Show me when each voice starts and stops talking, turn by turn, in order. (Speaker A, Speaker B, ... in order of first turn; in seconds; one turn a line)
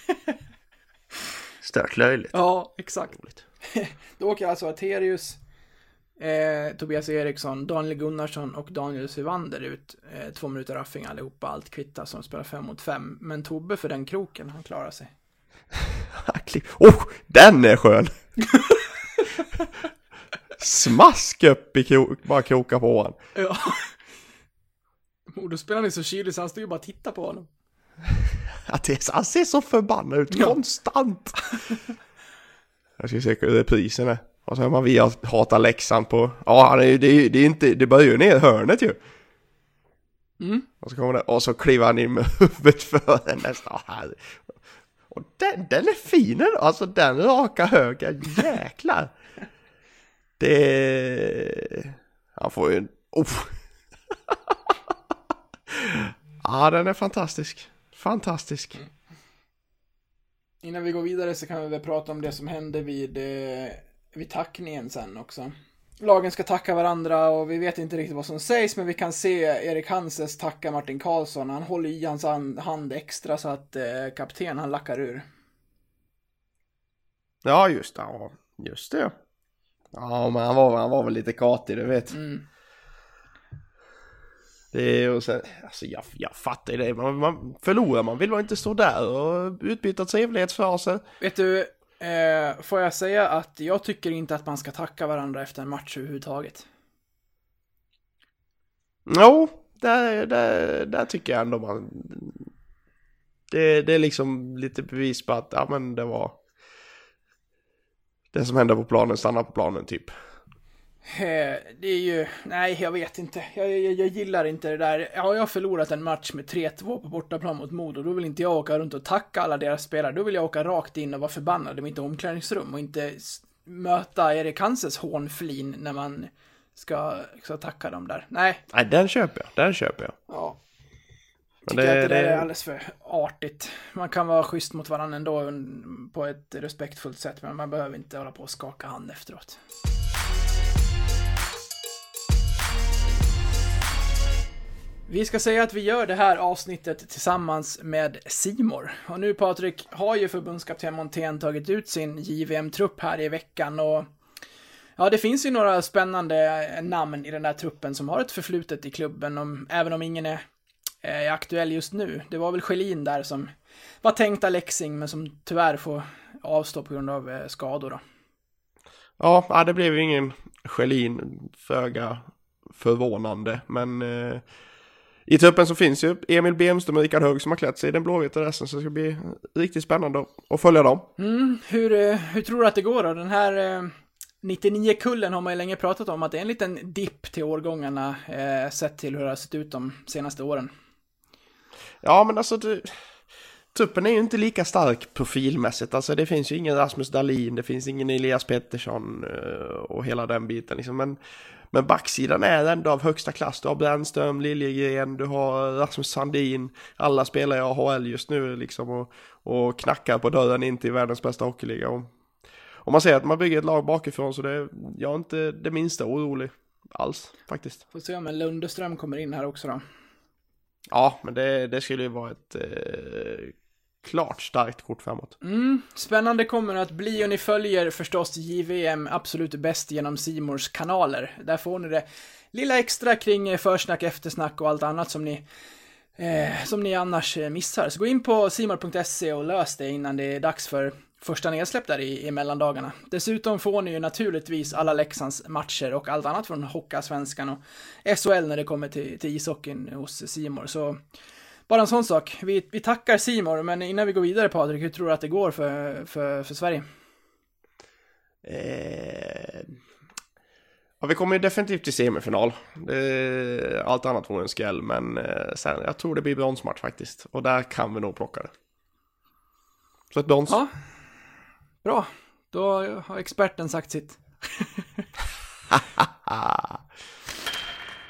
Speaker A: 1.6-2.4
Speaker B: 2.3-3.1
Speaker A: 3.1-3.4
Speaker B: 3.6-5.4
Speaker B: 6.2-15.1
Speaker A: 16.1-18.1
Speaker A: 20.6-23.2
Speaker B: 23.4-23.9
Speaker B: 25.3-27.5
Speaker A: 28.7-31.4
Speaker A: 33.0-39.0
Speaker B: 40.4-40.6
Speaker A: 40.8-44.5
Speaker A: 45.1-49.1
Speaker A: 50.4-53.5
Speaker A: 54.3-54.7
Speaker A: 55.7-58.8
Speaker B: 60.6-75.2
Speaker A: 77.4-79.1
Speaker A: 79.9-82.1
Speaker B: 82.1-82.4
Speaker A: 84.7-91.0
Speaker B: 91.2-96.7
Speaker A: 99.0-102.5
Speaker A: 103.5-106.4
Speaker A: 108.3-110.1
Speaker B: 111.1-128.6
Speaker A: 128.7-130.2
Speaker B: 130.3-130.6
Speaker A: 131.7-132.5
Speaker B: 131.7-139.6
Speaker B: 145.1-154.1
Speaker B: 155.0-160.4
Speaker B: 161.0-163.5
Speaker B: 164.0-168.0
Speaker A: 169.2-174.4
Speaker A: 175.3-181.1
Speaker B: 181.2-190.7
Speaker A: 192.0-193.0
Speaker A: 193.7-201.2
Speaker A: 201.7-212.1
Speaker A: 212.8-217.8
Speaker B: 217.9-219.8
Speaker A: 220.9-225.3
Speaker B: 225.4-235.4
Speaker B: 236.2-251.0
Speaker B: 251.7-256.8
Speaker A: 258.4-259.7
Speaker A: 261.0-268.5
Speaker A: 270.1-270.6
Speaker B: 271.8-274.8
Speaker A: 275.7-276.8